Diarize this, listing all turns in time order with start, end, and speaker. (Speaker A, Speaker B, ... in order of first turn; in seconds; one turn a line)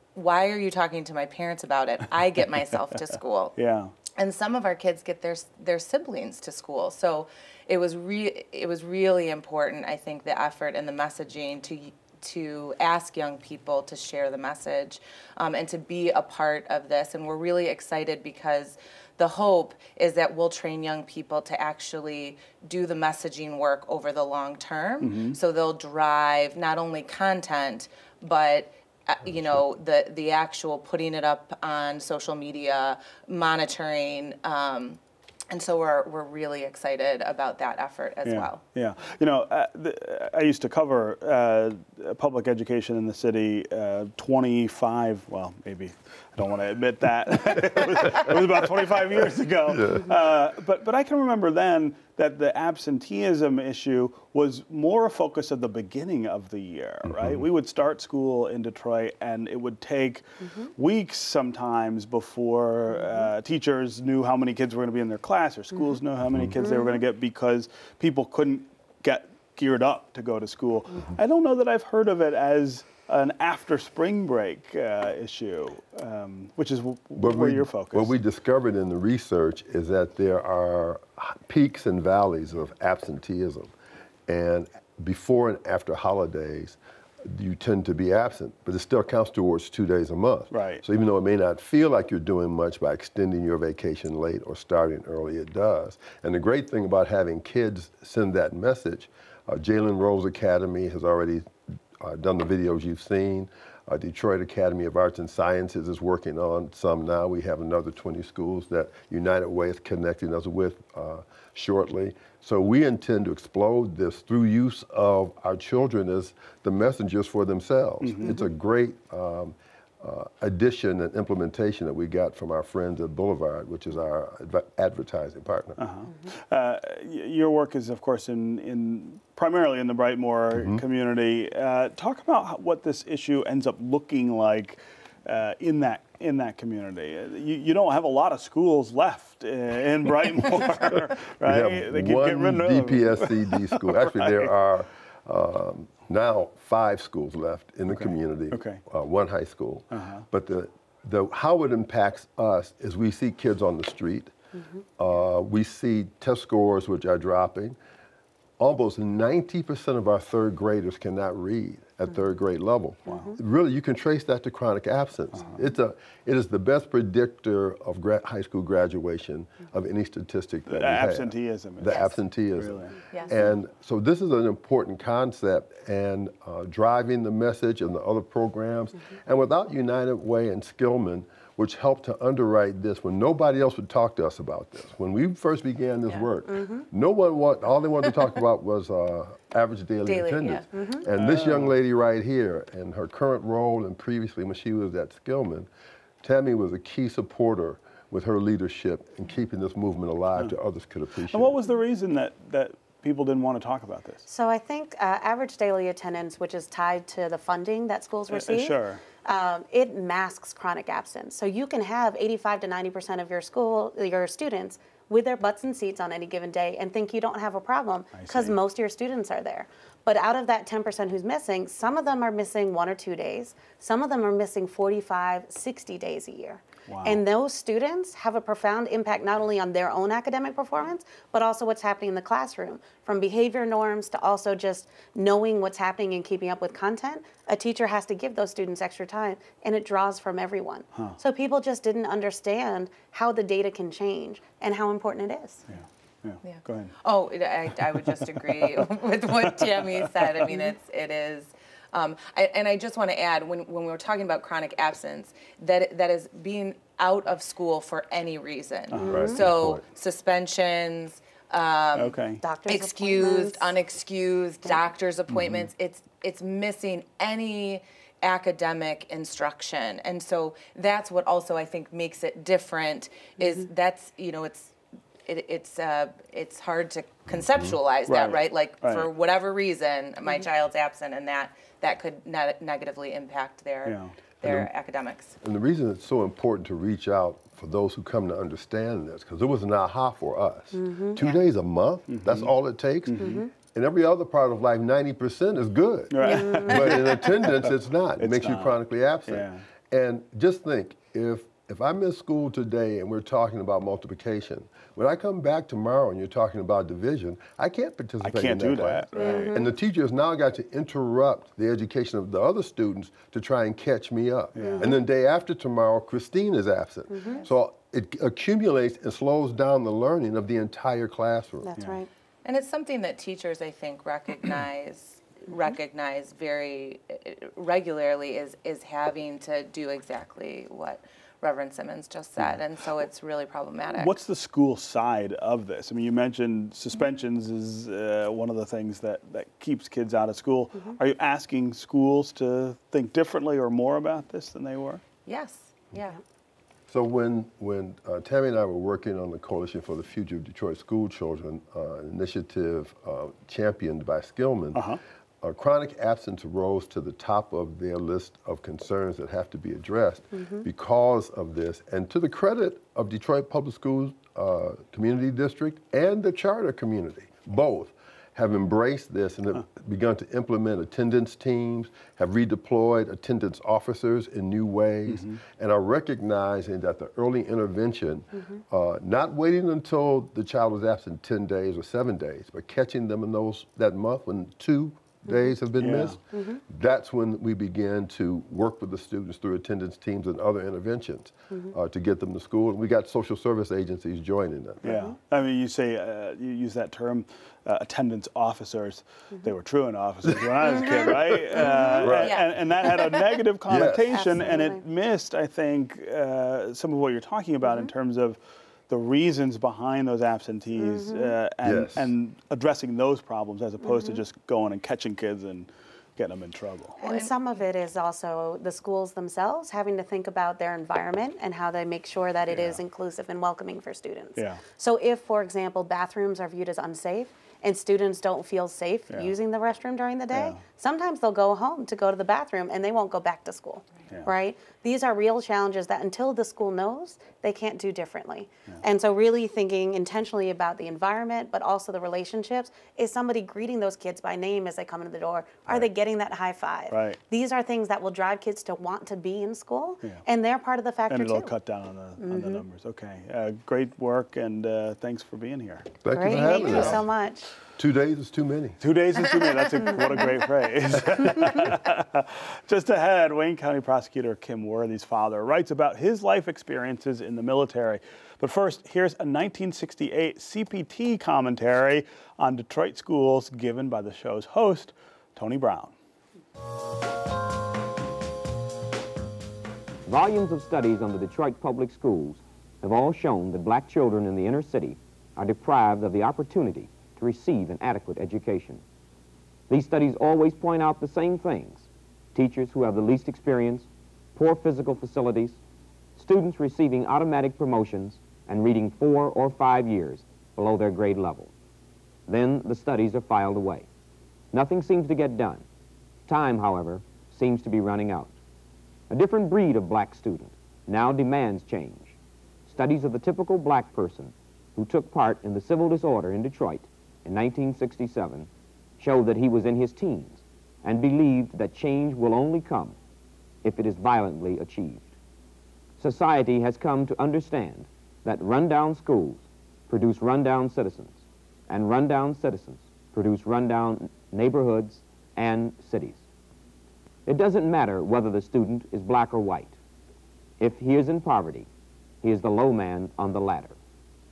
Speaker A: 0.1-3.5
Speaker B: 3.0-3.9
Speaker A: 4.2-38.6
Speaker B: 25.0-25.4
Speaker B: 38.2-60.2
Speaker C: 48.0-48.6
Speaker C: 49.7-50.1
Speaker C: 57.0-57.4
Speaker B: 60.8-78.2
Speaker D: 66.6-67.0
Speaker C: 77.1-83.7
Speaker C: 84.3-125.8
Speaker B: 90.5-90.8
Speaker B: 118.0-118.3
Speaker B: 125.8-144.5
Speaker C: 130.5-130.8
Speaker C: 141.4-154.3
Speaker B: 147.9-148.8
Speaker B: 149.9-150.2
Speaker C: 155.0-157.8
Speaker C: 158.6-195.7
Speaker B: 165.3-165.6
Speaker B: 170.7-172.9
Speaker A: 173.1-173.6
Speaker D: 186.5-186.8
Speaker A: 190.1-190.6
Speaker D: 190.7-191.0
Speaker B: 191.1-191.8
Speaker C: 196.2-201.6
Speaker B: 201.3-204.2
Speaker D: 204.3-245.6
Speaker B: 208.3-209.0
Speaker B: 218.1-218.6
Speaker B: 226.9-227.2
Speaker B: 245.7-246.9
Speaker A: 246.4-274.7
Speaker B: 248.1-248.9
Speaker B: 249.4-250.6
Speaker B: 258.9-259.2
Speaker C: 259.0-259.8
Speaker D: 259.1-259.4
Speaker B: 261.9-262.4
Speaker D: 262.4-263.7
Speaker B: 265.3-265.7
Speaker A: 275.2-285.4
Speaker B: 278.1-279.1
Speaker B: 283.8-284.1
Speaker C: 284.4-284.7
Speaker C: 285.4-321.7
Speaker D: 290.7-291.2
Speaker B: 292.1-293.4
Speaker D: 293.2-293.5
Speaker B: 296.1-299.6
Speaker D: 296.3-296.9
Speaker B: 308.2-309.6
Speaker D: 309.2-309.7
Speaker B: 314.5-314.9
Speaker D: 314.6-315.0
Speaker D: 317.1-317.4
Speaker D: 321.6-322.1
Speaker A: 322.4-334.2
Speaker B: 333.9-345.0
Speaker A: 345.2-346.2
Speaker C: 346.9-394.9
Speaker B: 354.7-355.0
Speaker B: 375.1-375.4
Speaker B: 385.8-386.2
Speaker D: 386.3-386.6
Speaker B: 394.8-417.0
Speaker D: 394.9-395.1
Speaker C: 400.4-400.9
Speaker C: 401.9-402.3
Speaker A: 402.1-402.5
Speaker C: 403.7-404.3
Speaker D: 404.1-404.8
Speaker D: 407.6-407.9
Speaker D: 410.8-411.4
Speaker C: 411.6-412.1
Speaker D: 413.8-414.2
Speaker D: 417.0-451.5
Speaker A: 417.0-417.3
Speaker B: 422.5-422.8
Speaker B: 424.4-424.6
Speaker B: 430.3-430.6
Speaker B: 446.9-447.2
Speaker B: 451.1-457.0
Speaker D: 452.2-452.6
Speaker C: 456.0-457.1
Speaker D: 456.1-457.5
Speaker C: 457.8-458.8
Speaker B: 458.8-475.9
Speaker E: 480.1-488.8
Speaker E: 489.7-495.6
Speaker E: 496.1-501.5
Speaker E: 502.3-503.9
Speaker E: 504.5-505.6
Speaker E: 506.3-508.4
Speaker E: 509.1-512.1
Speaker E: 512.7-523.0
Speaker E: 523.6-525.1
Speaker E: 526.0-536.2
Speaker E: 537.2-539.8
Speaker E: 540.6-541.7
Speaker E: 542.2-543.8